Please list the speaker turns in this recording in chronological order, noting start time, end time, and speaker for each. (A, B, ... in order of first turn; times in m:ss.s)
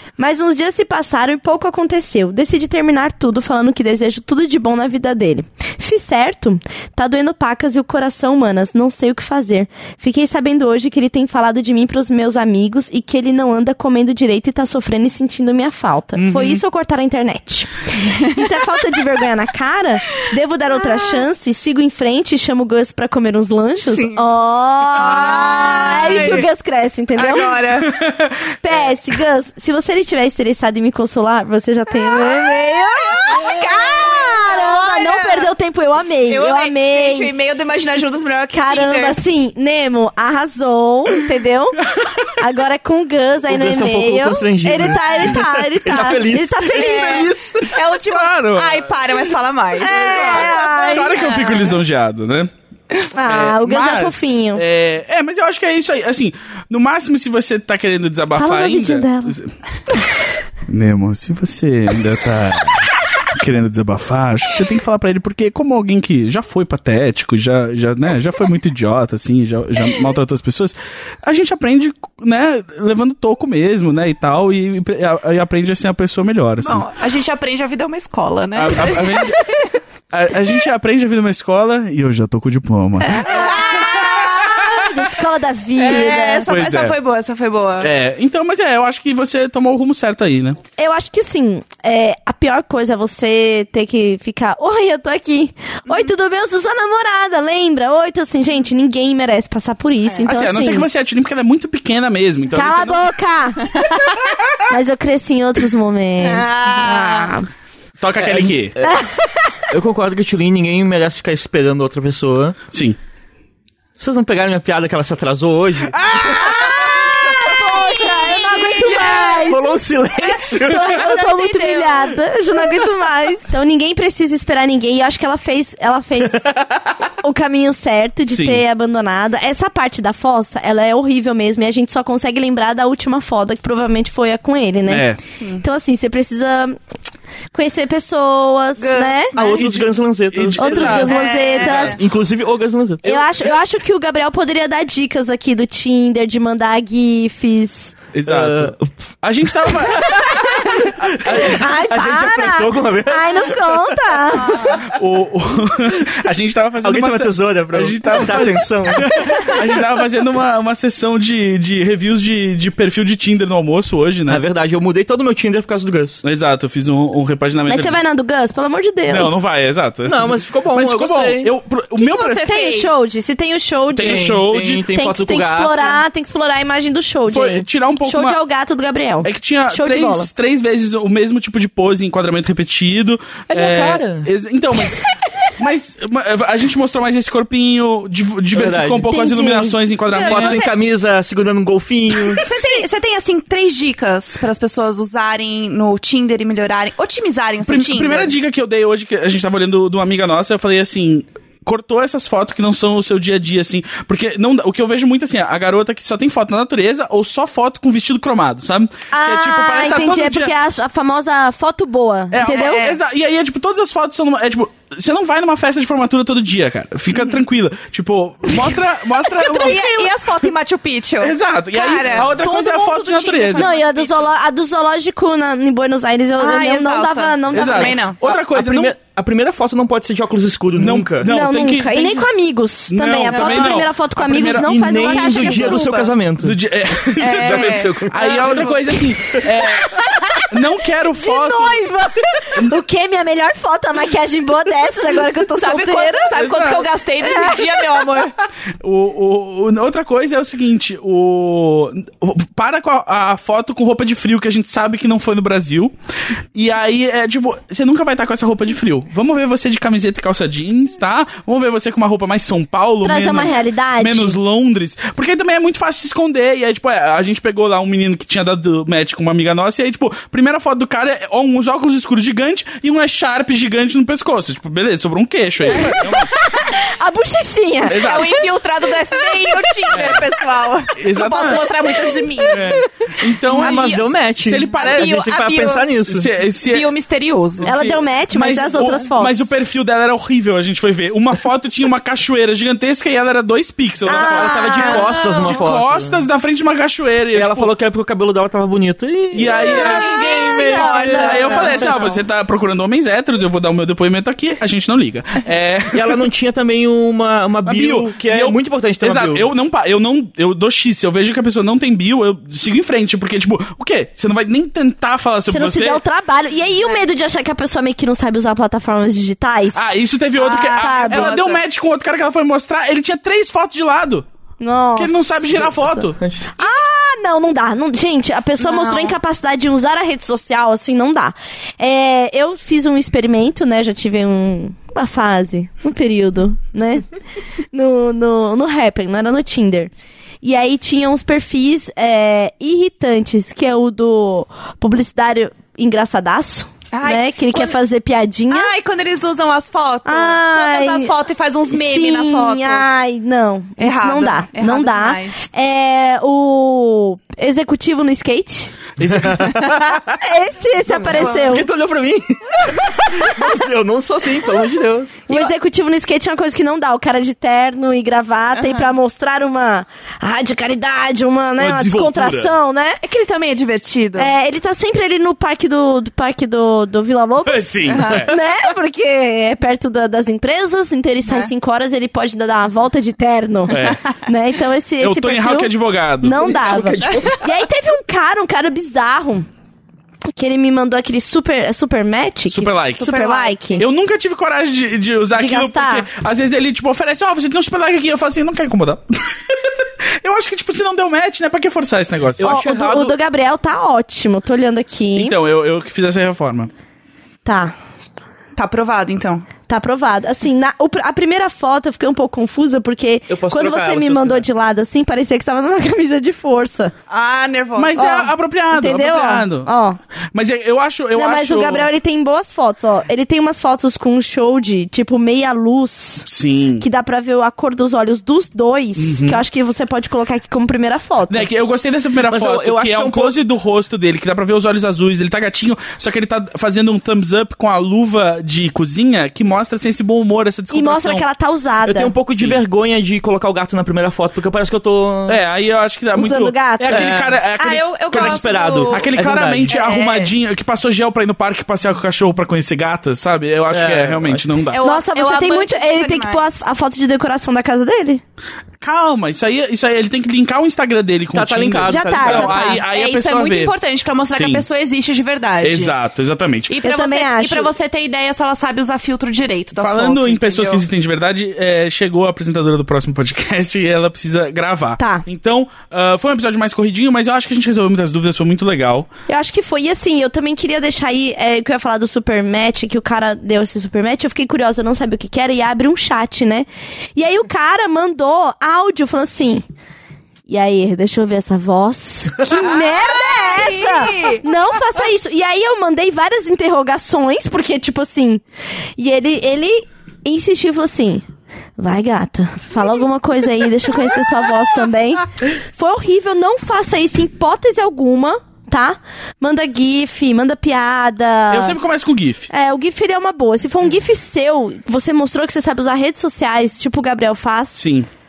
0:00.2-0:27.7 A
0:16.2-0:16.5 B
0:20.9-0:21.2 C
0:23.9-0:24.2 C
0:24.9-0:26.5 C
0:27.2-0:28.0 C
0:27.9-0:28.3 B
0:28.6-0:37.3 A
0:32.1-0:32.6 C
0:33.1-0:35.5 C
0:36.3-0:39.2 C
0:38.5-0:47.4 A
0:43.5-0:47.7 D
0:46.7-0:51.8 C
0:48.0-0:48.9 B
0:49.8-0:51.4 A
0:49.8-0:52.5 B
0:53.1-0:54.6 A
0:53.2-0:59.5 B
0:58.4-0:59.4 A
1:00.6-1:16.8 B
1:16.6-1:19.5 C
1:18.6-1:19.5 B
1:20.1-1:24.7 B
1:23.0-1:25.0 C
1:23.2-1:26.5 A
1:25.8-1:27.9 C
1:26.5-1:27.0 B
1:27.8-1:30.6 B
1:30.8-1:40.9 A
1:40.2-1:43.1 B
1:42.5-1:43.7 A
1:43.7-1:44.6 C
1:44.7-1:47.5 A
1:46.2-1:47.3 C
1:48.0-1:48.8 B
1:48.1-1:49.0 D
1:48.8-1:49.6 A
1:49.7-1:52.6 D
1:52.7-1:53.0 B
1:54.0-1:56.5 D
1:56.2-1:59.5 C
1:56.4-1:59.6 A
1:59.4-2:01.1 D
2:00.2-2:02.7 C
2:00.5-2:06.6 A
2:06.4-2:06.9 D
2:07.2-2:16.8 A
2:08.2-2:08.6 B
2:14.9-2:15.2 B
2:17.5-2:19.3 A
2:18.8-2:19.7 C
2:19.4-2:23.2 D
2:19.5-2:22.0 B
2:20.6-2:22.0 A
2:20.9-2:22.0 C
2:23.0-2:27.9 A
2:28.1-2:31.6 B
2:28.2-2:28.9 D
2:30.0-2:34.2 D
2:31.3-2:34.7 A
2:34.7-2:44.4 B
2:36.8-2:39.5 D
2:44.3-2:46.2 D
2:46.2-2:47.9 B
2:47.7-2:49.4 A
2:49.1-2:52.5 B
2:50.0-2:51.5 D
2:52.0-2:52.9 C
2:52.4-3:00.3 A
2:53.9-2:54.8 B
2:54.0-2:56.0 D
2:57.3-2:58.4 B
2:59.2-3:10.6 B
3:03.5-3:04.3 D
3:08.5-3:09.1 D
3:09.1-3:09.8 A
3:10.1-3:10.8 C
3:10.2-3:12.4 D
3:12.3-3:18.3 C
3:17.6-3:30.5 B
3:29.1-3:32.8 A
3:32.3-3:40.0 B
3:32.4-3:33.0 C
3:37.1-3:37.4 C
3:39.3-3:44.3 C
3:39.4-3:40.0 A
3:41.2-3:43.7 B
3:43.5-3:48.0 A
3:46.4-3:48.2 C
3:47.5-3:48.9 B
3:48.2-3:51.3 D
3:50.8-3:52.3 B
3:51.2-3:55.9 A
3:52.9-3:54.8 B
3:53.3-3:53.8 C
3:54.4-3:58.9 D
3:54.9-3:56.1 C
3:56.4-4:01.9 B
3:57.2-3:59.9 C
4:01.1-4:06.4 A
4:05.4-4:08.3 C
4:06.3-4:06.9 B
4:07.2-4:07.7 A
4:08.8-4:15.9 B
4:16.5-4:36.3 B
4:23.0-4:24.4 A
4:35.8-4:38.1 A
4:37.8-4:38.4 B
4:37.9-4:42.8 C
4:39.9-4:40.2 B
4:41.0-4:41.7 B
4:42.5-4:45.1 B
4:43.5-4:44.1 C
4:43.5-4:46.3 D
4:44.7-4:45.9 C
4:46.1-4:46.9 B
4:46.6-4:47.8 C
4:47.6-4:57.7 B
4:47.6-4:49.5 A
4:54.0-4:55.1 A
4:54.1-4:56.2 D
4:55.3-4:55.5 C
4:57.3-5:01.3 D
4:59.3-5:06.2 B
4:59.5-5:02.2 C
4:59.5-5:01.9 A
5:05.9-5:09.5 D
5:07.6-5:16.0 B
5:15.5-5:19.8 A
5:19.7-5:24.2 B
5:20.4-5:21.6 C
5:20.7-5:21.4 A
5:24.6-5:26.0 A
5:25.0-5:26.2 B
5:25.5-5:26.5 D
5:26.6-5:37.1 A
5:28.6-5:29.2 C
5:37.7-5:39.9 A
5:40.4-5:48.7 A
5:46.9-5:47.8 C
5:48.5-5:52.9 C
5:50.0-5:51.1 A
5:51.7-5:58.7 A
5:53.8-5:55.5 C
5:59.0-5:59.3 B
5:59.0-6:00.2 D
5:59.6-6:00.0 C
6:00.2-6:01.7 A
6:00.9-6:05.5 D
6:01.1-6:01.5 C
6:05.3-6:13.0 A
6:11.6-6:12.5 B
6:13.0-6:14.3 C
6:14.2-6:29.5 A
6:17.4-6:18.4 B
6:17.8-6:18.3 C
6:21.2-6:21.5 C
6:23.7-6:24.1 B
6:25.0-6:26.6 B
6:26.4-6:27.4 D
6:27.0-6:27.4 C
6:30.3-6:33.8 A
6:32.5-6:33.1 B
6:33.0-6:33.7 C
6:33.8-6:42.6 B
6:35.3-6:36.1 A
6:42.4-6:43.2 D
6:42.4-6:45.4 A
6:45.2-6:46.7 B
6:47.4-6:47.7 A
6:48.6-6:49.5 C
6:49.7-6:56.9 A
6:53.3-6:54.4 D
6:57.1-6:58.3 C
6:57.8-6:59.7 B
6:58.0-7:00.0 A
7:00.3-7:01.9 B
7:01.1-7:11.5 A
7:06.2-7:06.8 B
7:09.0-7:09.4 B
7:11.3-7:21.2 B
7:12.2-7:13.4 D
7:20.7-7:22.1 A
7:21.8-7:25.4 D
7:22.3-7:22.6 B
7:25.3-7:34.8 B
7:26.1-7:27.2 A
7:26.9-7:27.4 D
7:27.6-7:29.1 C
7:28.1-7:29.8 D
7:29.7-7:30.3 C
7:33.7-7:34.5 D
7:34.7-7:36.5 C
7:34.8-7:38.2 A
7:38.8-7:43.7 B
7:41.3-7:42.7 D
7:41.9-7:42.8 A
7:42.8-7:46.0 C
7:44.3-7:44.6 B
7:45.6-7:46.7 B
7:46.7-7:50.8 C
7:46.8-7:47.7 A
7:49.8-7:59.1 B
7:55.0-7:55.2 A
7:59.3-8:09.6 A
8:10.5-8:18.4 A
8:12.5-8:14.4 C
8:19.0-8:21.2 A
8:21.8-8:31.8 A
8:31.5-8:32.5 B
8:32.5-8:37.8 A
8:37.8-8:38.1 B